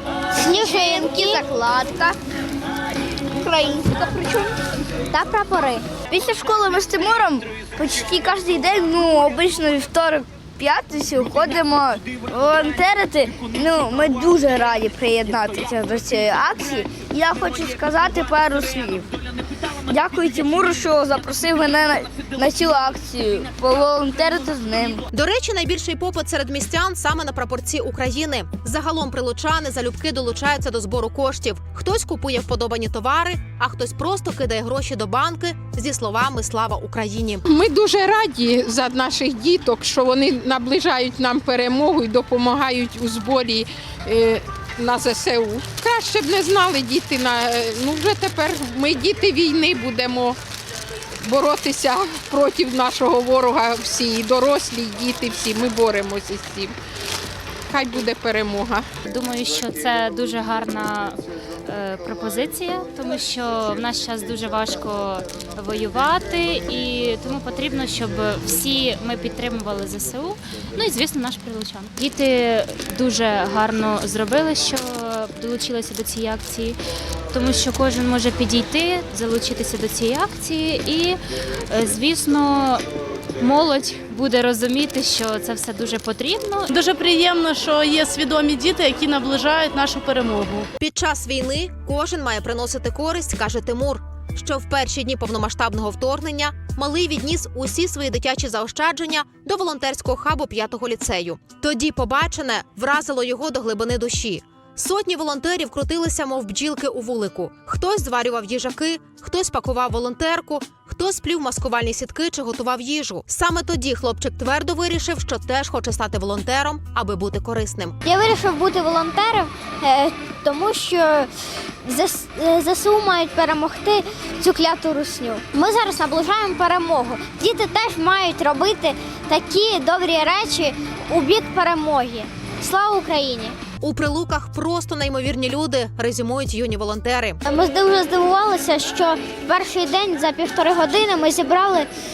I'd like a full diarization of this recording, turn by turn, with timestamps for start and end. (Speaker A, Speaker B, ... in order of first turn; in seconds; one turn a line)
Speaker A: 0.3-1.4
Speaker B: 0.5-2.2
Speaker B: 3.4-4.5
Speaker A: 5.1-5.9
Speaker B: 6.1-19.1
Speaker B: 19.9-25.0
Speaker C: 25.1-37.4
Speaker D: 37.5-50.4
Speaker D: 51.2-56.7
Speaker D: 57.7-58.9
Speaker E: 59.1-76.8
Speaker E: 77.3-81.2
Speaker E: 81.7-82.8
Speaker E: 83.4-86.7
Speaker F: 86.7-90.7
Speaker C: 90.8-118.0
Speaker A: 118.0-121.3
Speaker A: 121.8-133.6
Speaker C: 133.8-137.4
Speaker A: 137.5-141.9